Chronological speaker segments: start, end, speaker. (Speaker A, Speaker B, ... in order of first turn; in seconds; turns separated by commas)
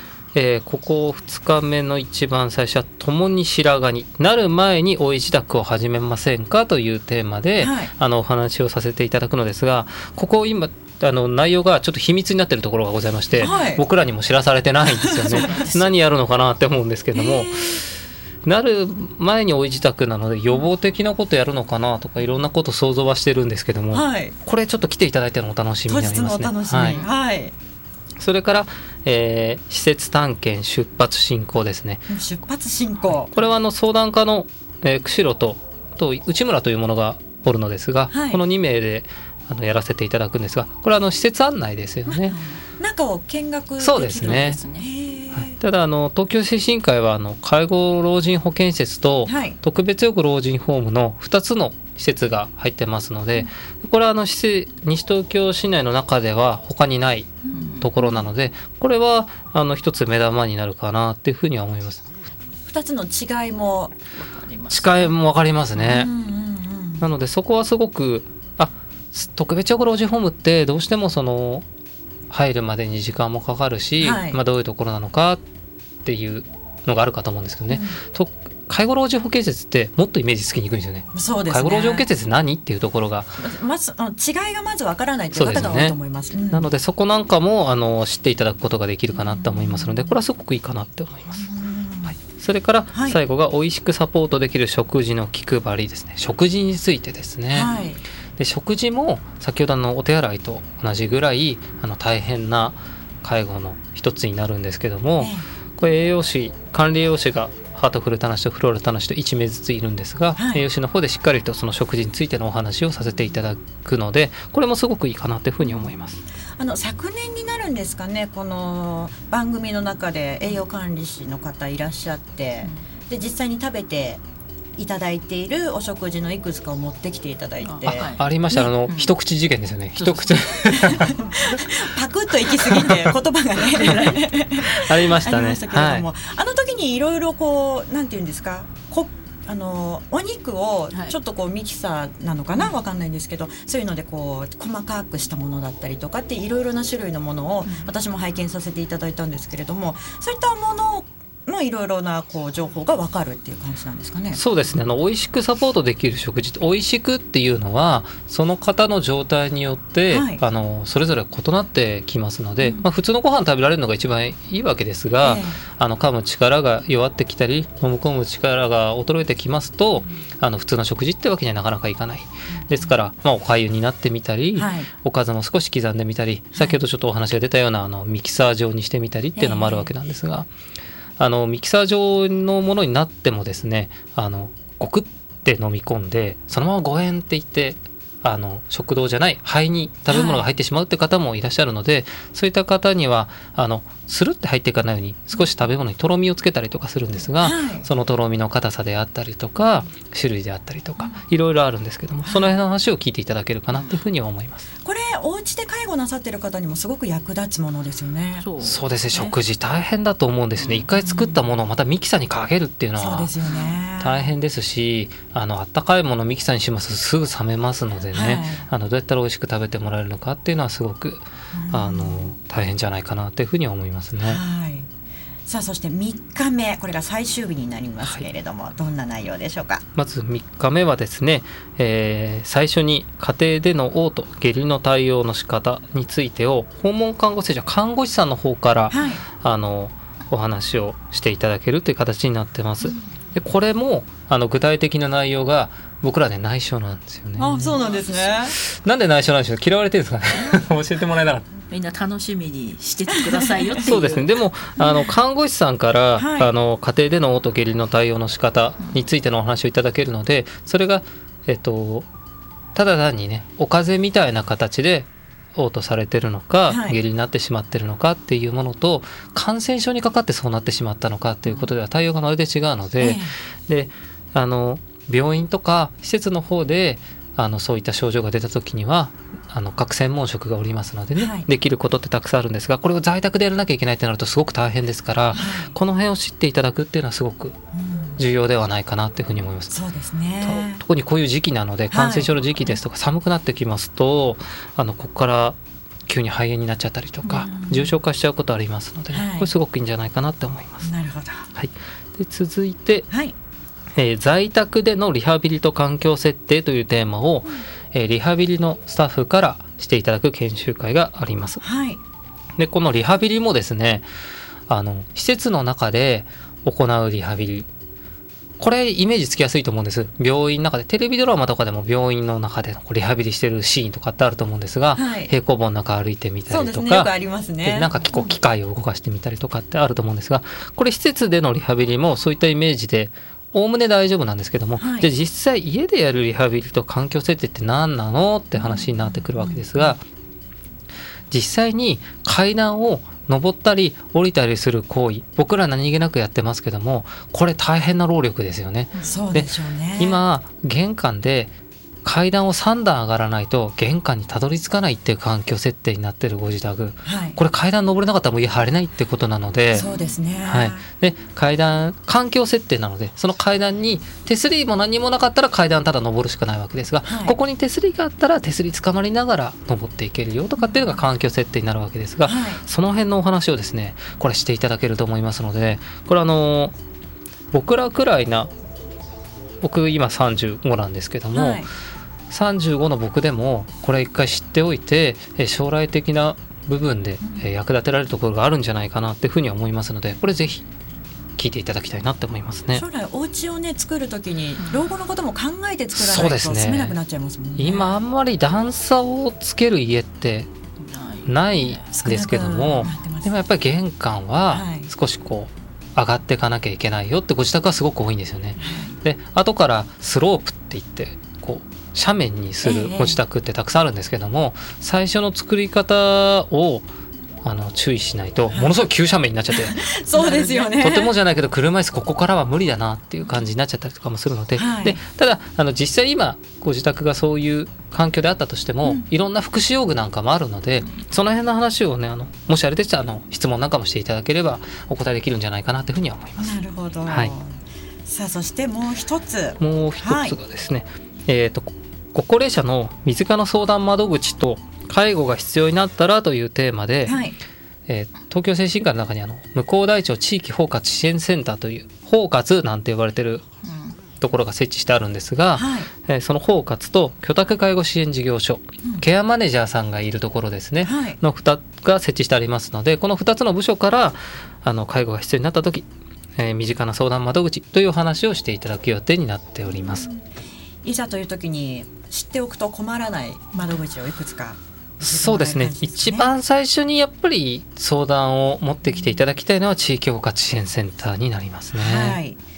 Speaker A: 0.3-17.8, Speaker B: 7.6-7.9, Speaker B: 13.4-13.8, Speaker B: 14.8-15.5, Speaker C: 15.2-15.9, Speaker B: 17.1-17.8, Speaker A: 18.4-27.0, Speaker B: 23.9-24.3, Speaker B: 25.9-27.5, Speaker C: 26.8-27.1, Speaker A: 28.2-32.1, Speaker B: 32.1-33.3, Speaker A: 33.1-42.4, Speaker B: 38.1-38.4, Speaker B: 42.1-45.6, Speaker A: 43.8-44.6, Speaker C: 44.2-44.9, Speaker A: 45.4-62.0, Speaker B: 49.3-49.6, Speaker C: 57.5-57.9, Speaker B: 57.5-58.2, Speaker B: 62.6-63.9, Speaker C: 64.2-65.1, Speaker A: 64.7-66.1, Speaker B: 65.7-67.1, Speaker A: 67.0-71.7, Speaker A: 72.3-75.4, Speaker B: 74.0-74.4, Speaker A: 76.0-83.3, Speaker B: 77.7-78.0, Speaker B: 81.1-82.1, Speaker B: 83.4-86.7, Speaker A: 85.3-86.0, Speaker A: 86.5-91.5, Speaker B: 89.1-90.2, Speaker B: 91.4-92.1, Speaker A: 92.1-97.7, Speaker B: 92.9-93.2, Speaker B: 97.5-98.0, Speaker A: 98.4-116.2, Speaker B: 105.2-105.4, Speaker B: 110.4-110.6, Speaker B: 116.6-124.2, Speaker B: 124.8-128.7, Speaker C: 127.6-128.2, Speaker A: 127.9-131.2, Speaker C: 128.9-129.1, Speaker C: 130.0-130.3, Speaker B: 130.7-154.4, Speaker A: 132.6-133.1, Speaker A: 133.7-136.1, Speaker A: 154.3-180.5, Speaker B: 160.1-160.4, Speaker B: 162.6-162.9, Speaker B: 165.2-165.6, Speaker B: 174.5-174.9, Speaker B: 179.4-179.9, Speaker A: 181.2-204.7, Speaker B: 190.1-190.5, Speaker B: 197.4-197.9, Speaker B: 202.2-202.6, Speaker C: 203.7-204.0, Speaker B: 204.8-208.5, Speaker C: 208.4-208.8, Speaker A: 208.6-213.3, Speaker C: 210.6-210.9, Speaker B: 211.0-211.4, Speaker B: 213.0-214.3, Speaker C: 213.4-213.7, Speaker A: 214.0-224.4, Speaker B: 218.1-218.7, Speaker B: 221.5-222.3, Speaker B: 224.2-224.9, Speaker B: 225.4-229.8, Speaker A: 229.9-247.8, Speaker B: 238.9-239.2, Speaker B: 247.4-248.5, Speaker C: 247.7-248.2, Speaker A: 248.4-251.4, Speaker C: 251.7-254.3, Speaker A: 253.8-262.1, Speaker B: 254.8-255.1, Speaker B: 256.1-256.5, Speaker A: 262.7-287.6, Speaker B: 266.7-267.0, Speaker B: 273.0-273.3, Speaker B: 281.1-281.4, Speaker B: 285.3-285.7, Speaker B: 287.7-288.2, Speaker A: 288.2-289.8, Speaker B: 289.7-290.8, Speaker A: 290.4-300.9, Speaker B: 291.9-292.3, Speaker B: 297.3-297.9, Speaker B: 299.1-299.5, Speaker B: 300.8-301.5, Speaker A: 301.5-303.1, Speaker B: 303.1-303.3, Speaker A: 303.9-311.6, Speaker B: 311.6-312.0, Speaker A: 312.6-314.1, Speaker A: 314.7-317.7, Speaker A: 318.6-327.1, Speaker B: 324.9-325.3, Speaker B: 326.5-328.4, Speaker A: 327.6-340.0, Speaker B: 334.8-335.1, Speaker B: 338.6-339.9, Speaker A: 341.3-351.5, Speaker C: 348.9-349.2, Speaker B: 349.0-350.2, Speaker A: 352.0-359.9, Speaker B: 357.1-357.4, Speaker B: 359.7-360.8, Speaker A: 360.5-376.7, Speaker B: 367.0-367.4, Speaker B: 370.6-371.0, Speaker B: 372.2-372.6, Speaker A: 377.5-378.5, Speaker A: 379.6-381.6, Speaker B: 381.3-381.7, Speaker A: 382.3-390.6, Speaker A: 391.4-392.9, Speaker B: 392.7-398.0, Speaker C: 394.6-394.9, Speaker A: 395.9-396.9, Speaker A: 397.6-400.5, Speaker C: 400.8-401.8, Speaker A: 401.2-416.9, Speaker B: 401.9-403.3, Speaker B: 404.5-404.9, Speaker B: 408.6-409.0, Speaker B: 412.6-413.2, Speaker A: 417.4-437.3, Speaker B: 418.5-418.8, Speaker B: 419.5-421.1, Speaker C: 420.2-420.5, Speaker B: 424.5-425.0, Speaker B: 428.8-429.1, Speaker B: 436.4-437.5, Speaker B: 438.1-440.3, Speaker A: 439.6-447.2, Speaker B: 447.1-447.4, Speaker A: 447.9-453.4, Speaker C: 453.6-453.9, Speaker A: 454.2-465.9, Speaker B: 455.5-455.9, Speaker B: 460.8-461.2, Speaker A: 466.4-470.1, Speaker B: 469.7-470.3, Speaker B: 470.8-476.3, Speaker A: 475.0-482.2, Speaker B: 481.7-482.4